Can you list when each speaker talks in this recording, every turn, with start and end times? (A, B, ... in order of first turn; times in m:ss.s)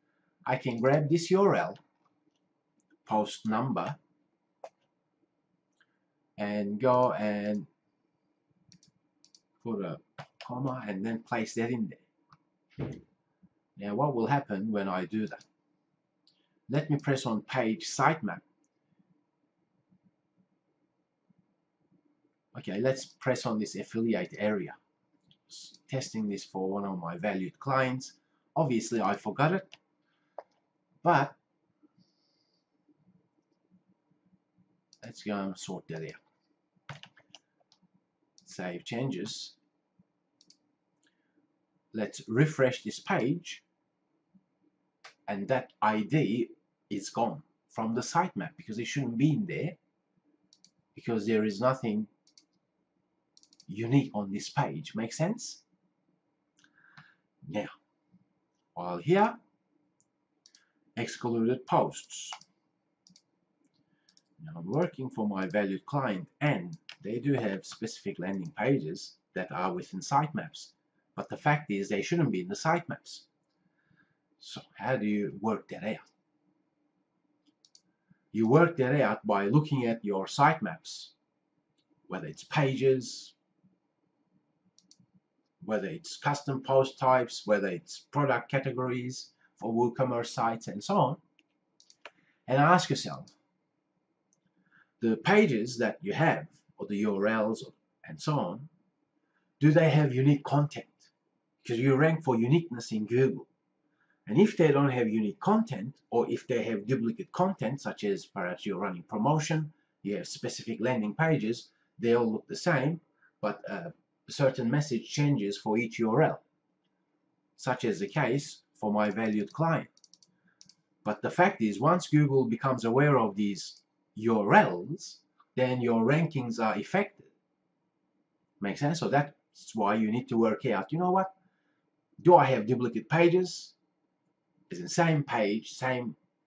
0:00.4-0:01.8 A
0:03.0-0:04.0 A
0:06.4-0:07.7 A
0:09.6-0:12.0 A
0:13.8-0:15.4 A
0:16.7-0:18.4 A
0:22.5-0:24.8 A
0:25.5-0:29.7 A
0:31.0-0:31.4 A
0:35.0-0:36.2 A
0:38.4-0:39.6 A
0:41.9-0:43.6 A
0:45.3-0:49.8 A
0:50.9-0:52.1 A
0:53.7-0:55.6 A
0:57.4-0:57.7 A
0:58.7-0:59.4 A
1:01.0-1:02.4 A
1:04.4-1:13.2 A
1:14.4-1:16.1 A
1:18.3-1:21.1 A
1:22.1-1:23.3 A
1:25.6-1:31.2 A
1:32.5-1:33.3 A
1:35.0-1:38.7 A
1:39.6-1:41.1 A
1:41.6-1:43.5 A
1:44.2-1:56.4 A
1:57.6-1:59.9 A
2:01.0-2:07.3 A
2:08.6-2:11.3 A
2:12.2-2:13.7 A
2:14.7-2:16.2 A